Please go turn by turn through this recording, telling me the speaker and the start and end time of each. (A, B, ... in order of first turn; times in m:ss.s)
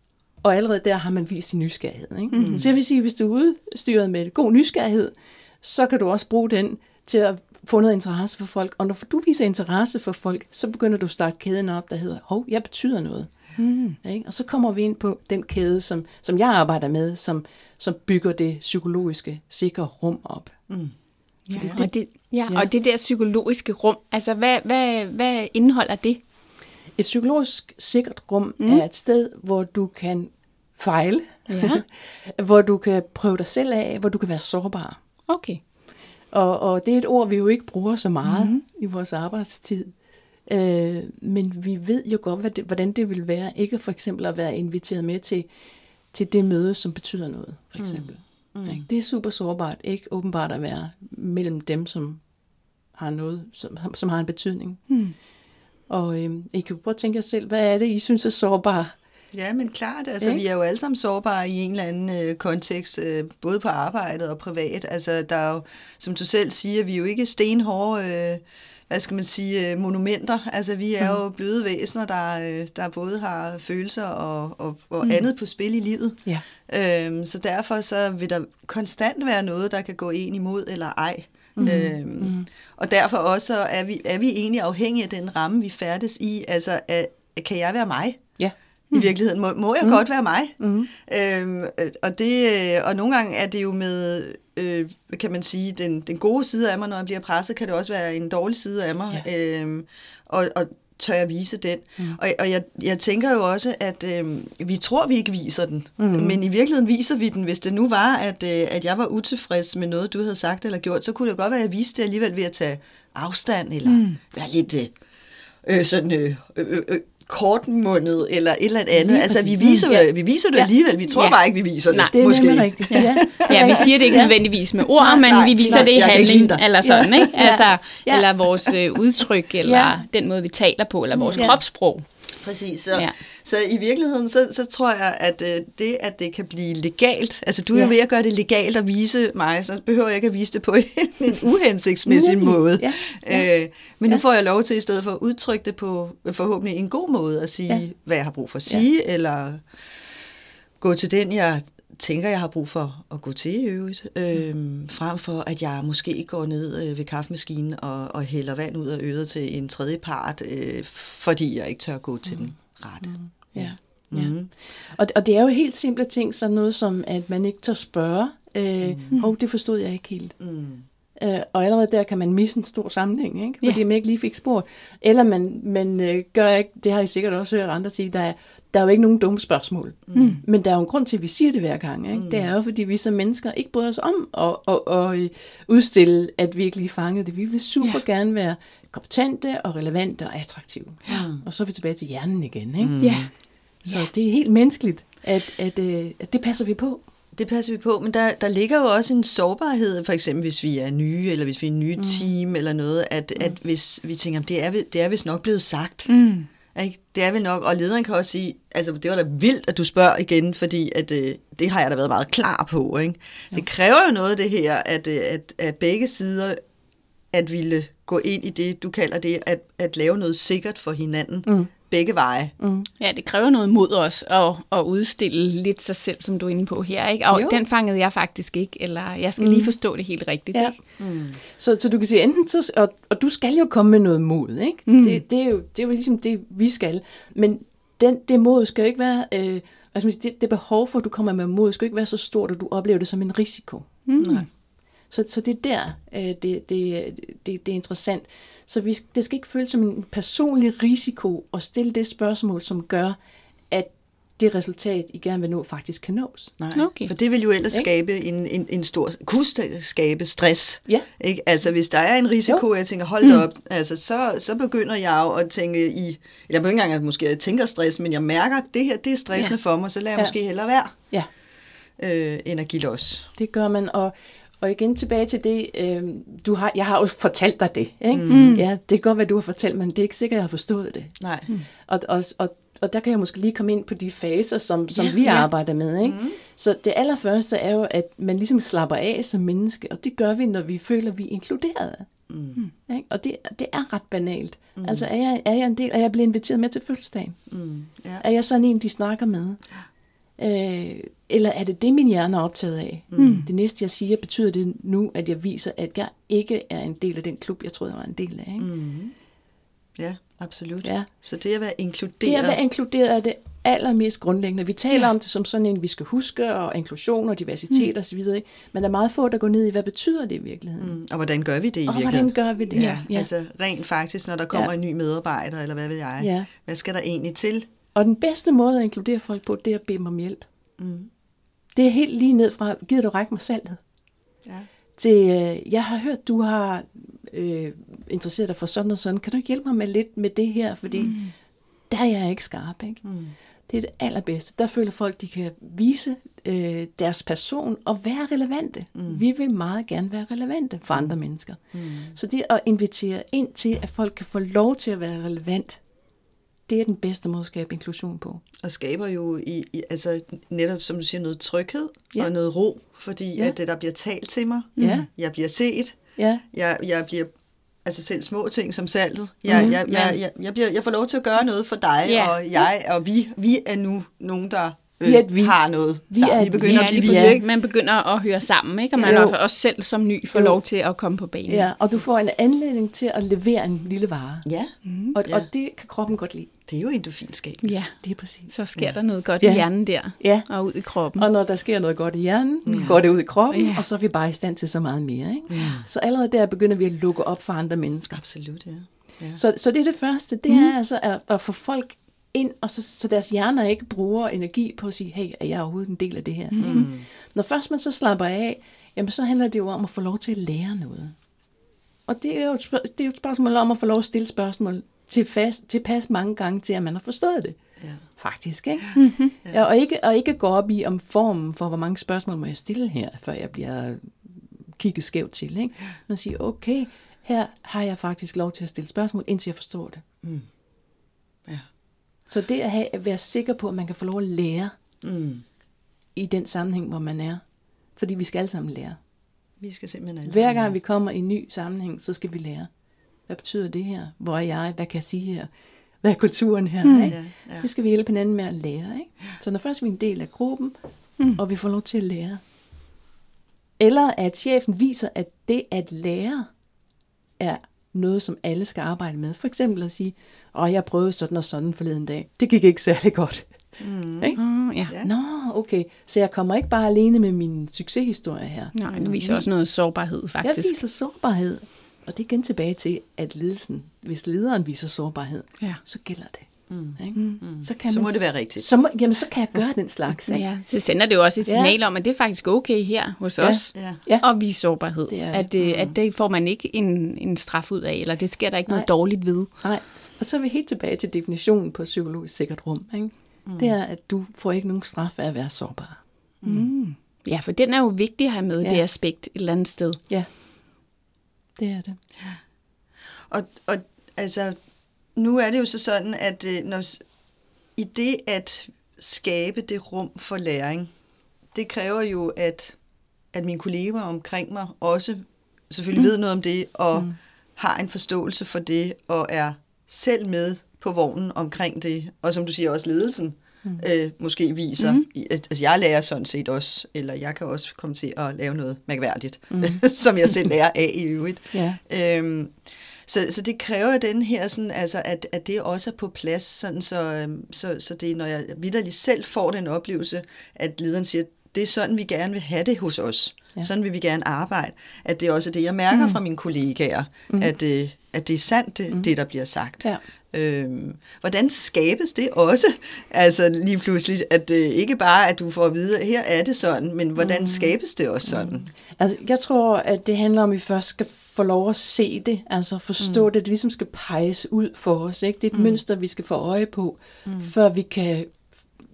0:00.4-0:20.6 A
0:02.3-0:02.6 B
0:02.4-0:02.7 C
0:13.6-0:14.0 B
0:20.7-0:20.9 C
0:21.5-0:21.8 C
0:21.5-0:26.2 B
0:21.5-0:22.7 A
0:27.0-0:35.0 A
0:31.5-0:31.8 B
0:35.3-0:35.6 B
0:36.3-0:39.9 A
0:38.2-0:38.6 B
0:40.4-0:45.5 A
0:46.1-0:52.2 A
0:47.8-0:48.8 C
0:52.9-0:54.8 A
0:54.9-0:55.1 B
0:55.9-0:58.9 A
0:59.3-1:28.2 C
1:21.6-1:22.5 A
1:28.9-1:55.0 C
1:30.6-1:30.9 A
1:46.0-1:46.4 A
1:53.8-1:54.2 B
1:55.6-2:04.2 C
1:58.9-2:00.7 A
2:01.1-2:12.0 B
2:02.1-2:04.3 A
2:05.0-2:07.3 C
2:05.0-2:08.7 A
2:09.6-2:09.9 A
2:11.1-2:11.6 C
2:12.4-2:29.6 C
2:22.0-2:23.4 A
2:30.8-2:44.5 C
2:43.0-2:50.4 A
2:48.8-2:49.1 C
2:50.4-2:50.8 C
2:51.2-3:13.0 A
3:00.1-3:00.4 C
3:00.1-3:00.4 B
3:02.1-3:02.5 C
3:11.0-3:11.4 C
3:12.8-3:13.3 C
3:13.0-3:13.3 B
3:13.8-3:14.1 B
3:13.8-3:17.0 A
3:17.3-3:26.2 C
3:22.0-3:22.3 A
3:26.1-3:26.5 B
3:26.7-3:36.6 C
3:37.3-3:42.5 C
3:41.4-3:41.7 A
3:42.6-3:42.9 A
3:43.0-3:50.8 B
3:47.3-3:47.6 A
3:49.4-3:49.7 A
3:50.5-3:50.8 A
3:51.0-3:51.4 C
3:51.4-4:03.9 A
3:54.9-3:55.2 B
4:04.0-4:04.4 B
4:04.2-4:04.5 C
4:05.1-4:13.2 A
4:13.7-4:16.5 A
4:16.6-4:31.0 C
4:16.7-4:17.1 B
4:32.0-4:33.3 C
4:33.4-4:41.1 A
4:38.1-4:38.6 C
4:38.3-4:38.6 B
4:41.2-4:41.5 C
4:41.8-4:52.1 A
4:44.9-4:45.5 B
4:46.0-4:46.4 C
4:52.3-4:52.6 C
4:52.9-4:57.4 A
4:54.8-4:55.1 C
4:57.5-4:58.2 C
4:58.2-4:59.6 A
5:00.4-5:08.7 A
5:03.1-5:03.5 C
5:03.2-5:03.5 B
5:08.6-5:09.1 C
5:10.0-5:12.6 C
5:12.2-5:21.0 A
5:20.8-5:27.6 C
5:21.8-5:23.3 A
5:22.7-5:23.0 B
5:26.2-5:26.5 A
5:27.9-5:30.4 A
5:30.8-5:31.1 C
5:31.7-5:33.8 A
5:35.0-5:41.2 A
5:41.0-5:41.3 B
5:41.9-5:43.0 A
5:43.0-5:43.3 C
5:43.7-5:51.6 A
5:48.9-5:49.2 C
5:51.7-5:52.2 C
5:52.1-5:55.8 A
5:56.7-5:58.4 A
5:58.6-6:17.4 C
6:04.8-6:05.1 A
6:06.2-6:06.4 A
6:09.5-6:09.8 A
6:09.5-6:10.2 B
6:12.0-6:12.7 B
6:15.0-6:17.4 A
6:16.6-6:21.7 B
6:19.0-6:19.2 C
6:19.0-6:19.3 A
6:20.3-6:20.6 A
6:21.5-6:24.5 A
6:24.4-6:25.5 C
6:24.8-6:25.1 B
6:25.1-6:26.5 A
6:26.7-6:27.8 C
6:27.6-6:31.2 B
6:28.0-6:28.5 A
6:29.4-6:38.2 A
6:32.6-6:33.0 C
6:32.7-6:32.9 B
6:33.5-6:33.8 B
6:35.5-6:35.9 C
6:38.1-6:39.4 C
6:39.3-6:51.1 A
6:46.5-6:46.8 B
6:46.6-6:47.1 C
6:52.1-6:57.6 A
6:58.1-7:10.0 A
6:59.0-6:59.3 B
7:10.2-7:10.5 C
7:12.3-7:14.8 A
7:15.0-7:15.4 C
7:16.1-7:17.4 A
7:18.0-7:19.0 A
7:19.6-7:20.7 C
7:20.2-7:22.7 A
7:23.3-7:25.5 A
7:26.0-7:32.4 A
7:26.8-7:27.1 B
7:27.0-7:27.7 C
7:33.8-7:36.5 A
7:37.4-7:44.4 A
7:43.8-7:45.1 C
7:44.4-7:44.9 B
7:45.0-7:49.5 A
7:48.7-7:50.8 B
7:50.4-8:00.5 A
7:56.7-7:58.7 C
7:57.1-7:57.4 B
8:00.3-8:09.5 B
8:01.4-8:01.7 A
8:03.4-8:04.3 A
8:05.1-8:05.5 A
8:05.6-8:05.9 C
8:08.7-8:16.0 A
8:13.4-8:13.7 C
8:16.4-8:16.7 C
8:16.4-8:20.0 B
8:21.6-8:22.0 A
8:23.3-8:24.6 C
8:25.1-8:27.0 C
8:27.7-8:30.9 C
8:31.5-8:32.8 C
8:33.3-9:18.7 C
8:44.8-8:45.0 B
8:49.5-8:49.8 A
8:51.5-8:51.8 A
9:07.3-9:07.5 A
9:17.2-9:17.7 A
9:18.2-9:28.4 A
9:23.0-9:23.2 C
9:25.5-9:25.8 C
9:27.2-9:27.5 C